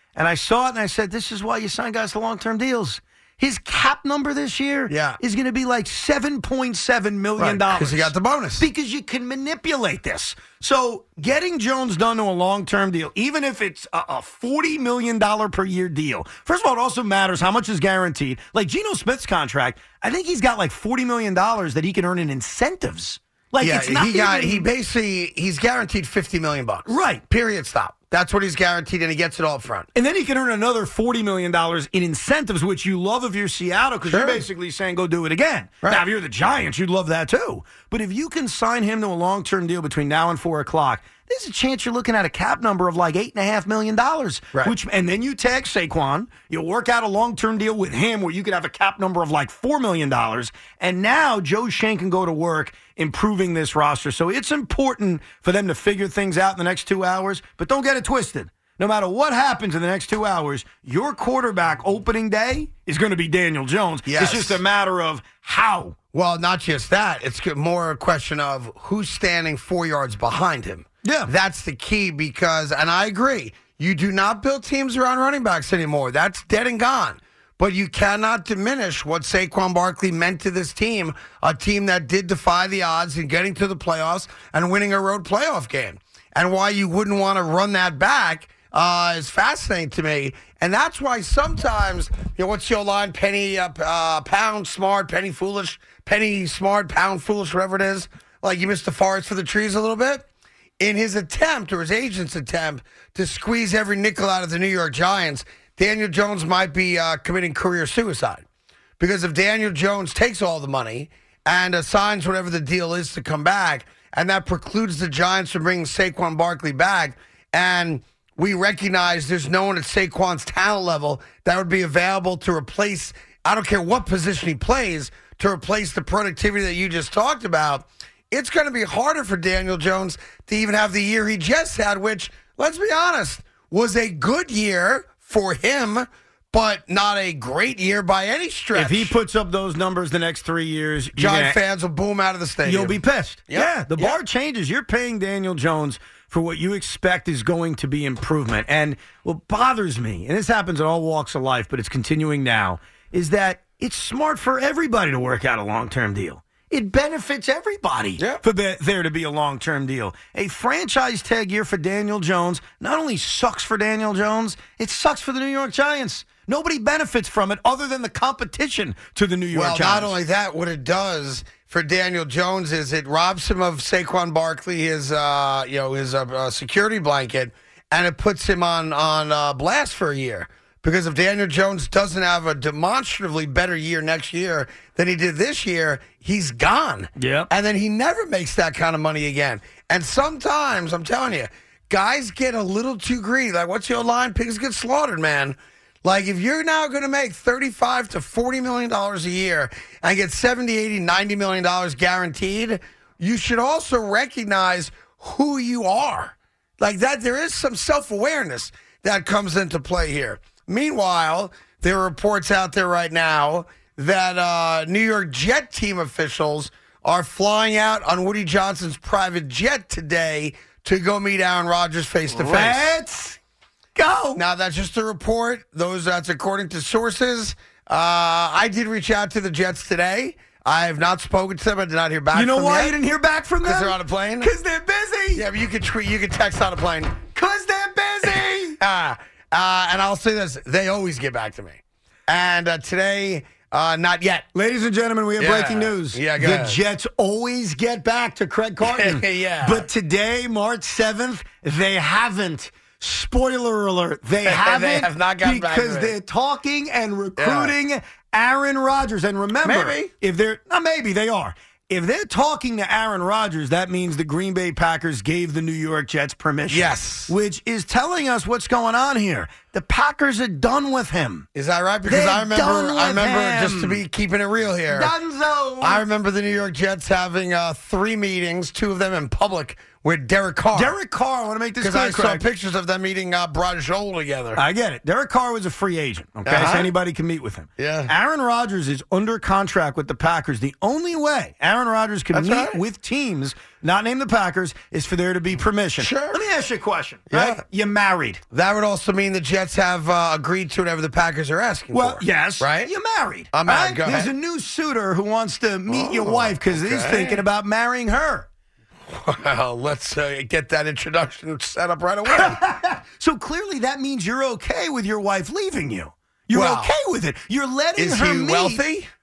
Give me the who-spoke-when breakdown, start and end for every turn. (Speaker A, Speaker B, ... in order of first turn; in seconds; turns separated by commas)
Speaker A: 0.2-24.7, Speaker B: 4.9-5.2, Speaker B: 7.4-8.7, Speaker B: 23.6-29.9, Speaker A: 26.9-27.2, Speaker A: 29.9-66.0, Speaker B: 34.1-34.5, Speaker B: 64.1-64.6, Speaker B: 66.1-100.2, Speaker A: 71.0-71.3, Speaker B: 100.8-108.5, Speaker B: 109.0-139.1, Speaker A: 138.7-141.6, Speaker B: 141.2-143.0, Speaker A: 142.6-170.1, Speaker B: 143.5-144.2, Speaker B: 169.5-222.9, Speaker A: 187.2-187.5, Speaker A: 222.3-223.4, Speaker A: 224.0-224.4, Speaker B: 224.3-233.0, Speaker A: 232.3-235.4, Speaker B: 233.6-234.5, Speaker B: 235.3-237.2, Speaker A: 237.3-238.8, Speaker B: 238.3-244.5, Speaker A: 244.6-271.5, Speaker B: 245.4-246.8, Speaker B: 248.8-249.9, Speaker B: 254.4-256.1, Speaker B: 257.4-257.8, Speaker B: 259.6-260.1, Speaker B: 266.7-267.3, Speaker B: 271.6-275.1, Speaker A: 272.1-274.0, Speaker A: 274.9-276.0, Speaker B: 275.8-281.0, Speaker A: 280.7-282.4, Speaker B: 281.8-284.6, Speaker A: 284.6-298.4, Speaker B: 286.5-286.9, Speaker B: 287.8-288.1, Speaker B: 292.3-292.8, Speaker B: 296.0-296.4, Speaker B: 297.3-297.6, Speaker B: 298.5-302.9, Speaker A: 301.9-308.5, Speaker B: 303.5-304.3, Speaker B: 305.9-307.4, Speaker B: 309.1-312.6, Speaker A: 312.3-318.8, Speaker B: 316.5-316.9, Speaker B: 318.0-319.1